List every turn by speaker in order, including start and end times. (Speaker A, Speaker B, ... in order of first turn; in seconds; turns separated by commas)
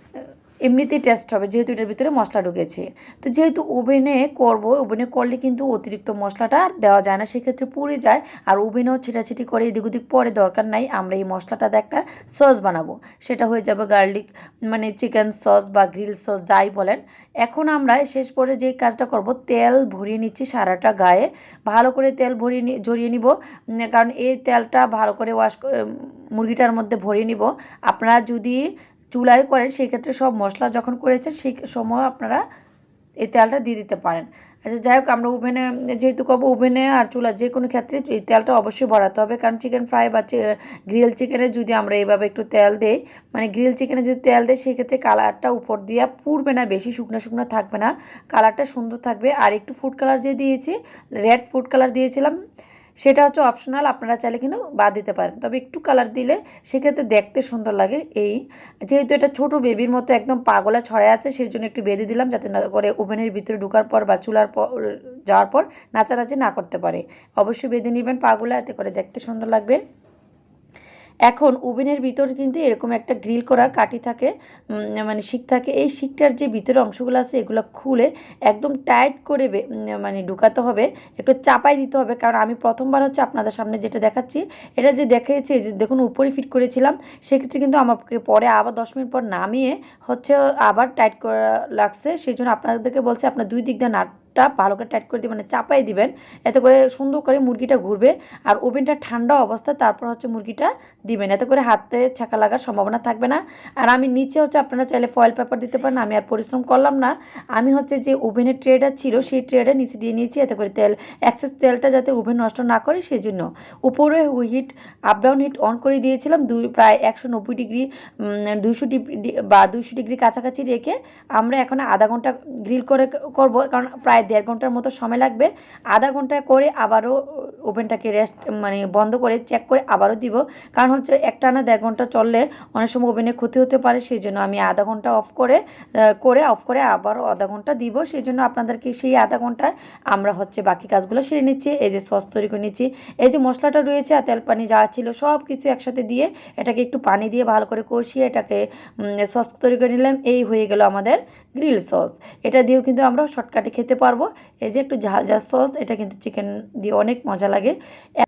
Speaker A: 0.7-32.4, Speaker A: 33.2-52.4, Speaker A: 53.0-69.8, Speaker A: 71.3-135.6, Speaker A: 136.2-157.8